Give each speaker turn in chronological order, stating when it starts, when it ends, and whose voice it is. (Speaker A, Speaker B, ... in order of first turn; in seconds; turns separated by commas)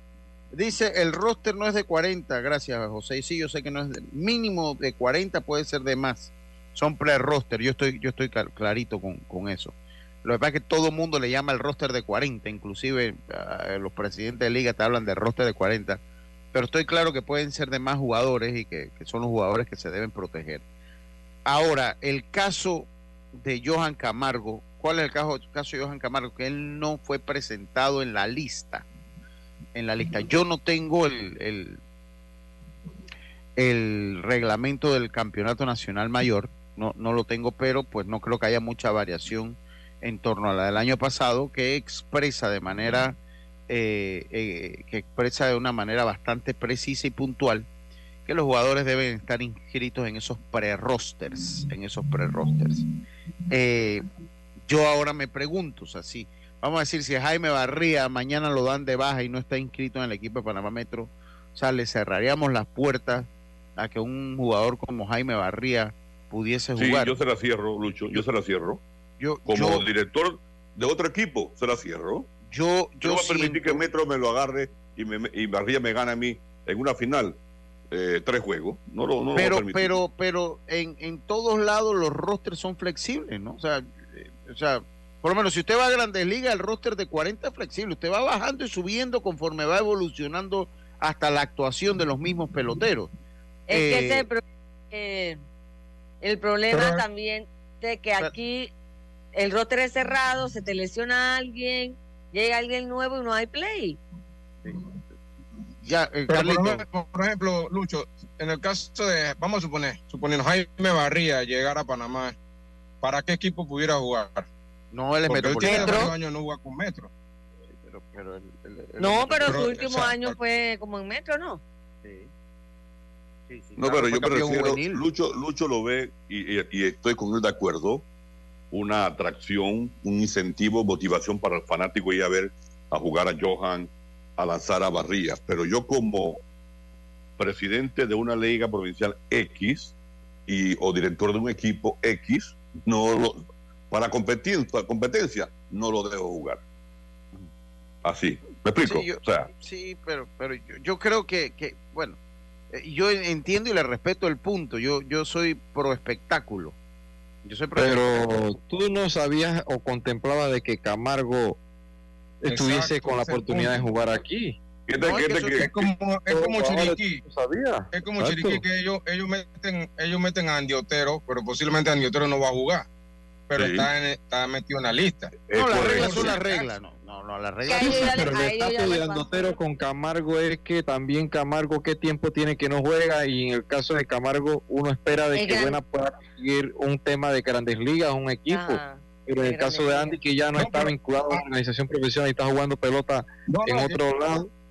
Speaker A: 0.5-16.0, Speaker A: 16.5-20.6, Speaker A: 21.5-28.9, Speaker A: 29.8-31.8, Speaker A: 33.6-43.2, Speaker A: 43.7-47.7, Speaker A: 48.3-52.8, Speaker A: 53.5-54.0, Speaker A: 54.7-67.2, Speaker B: 66.8-68.8, Speaker A: 69.2-69.9, Speaker B: 69.5-72.3, Speaker A: 72.5-73.9, Speaker B: 73.0-77.4, Speaker B: 77.9-80.0, Speaker A: 79.4-93.1, Speaker C: 93.7-95.4, Speaker A: 93.7-94.3, Speaker C: 96.2-98.7, Speaker D: 96.7-97.0, Speaker C: 99.3-104.0, Speaker A: 105.8-106.8, Speaker D: 106.3-112.3, Speaker D: 113.0-114.5, Speaker A: 114.9-116.1, Speaker D: 115.3-117.1, Speaker C: 115.6-116.1, Speaker A: 117.7-119.7, Speaker C: 119.0-121.6, Speaker D: 119.5-120.4, Speaker A: 122.0-122.3, Speaker A: 123.5-125.0, Speaker B: 123.8-128.1, Speaker B: 128.7-136.4, Speaker B: 137.4-139.9, Speaker B: 140.5-146.6, Speaker B: 148.0-149.5, Speaker A: 148.8-152.2, Speaker A: 152.7-156.8, Speaker A: 157.4-158.2, Speaker E: 157.8-161.6, Speaker E: 162.4-164.6, Speaker D: 162.5-163.9, Speaker B: 164.9-165.9, Speaker D: 165.1-167.2, Speaker E: 166.3-168.6, Speaker D: 167.9-172.9, Speaker D: 173.5-176.7, Speaker B: 173.6-173.9, Speaker B: 175.5-176.4, Speaker A: 175.6-178.3, Speaker E: 177.7-194.5, Speaker C: 177.7-179.6, Speaker C: 185.3-185.8, Speaker C: 188.5-190.2, Speaker D: 190.6-191.4, Speaker D: 193.5-194.0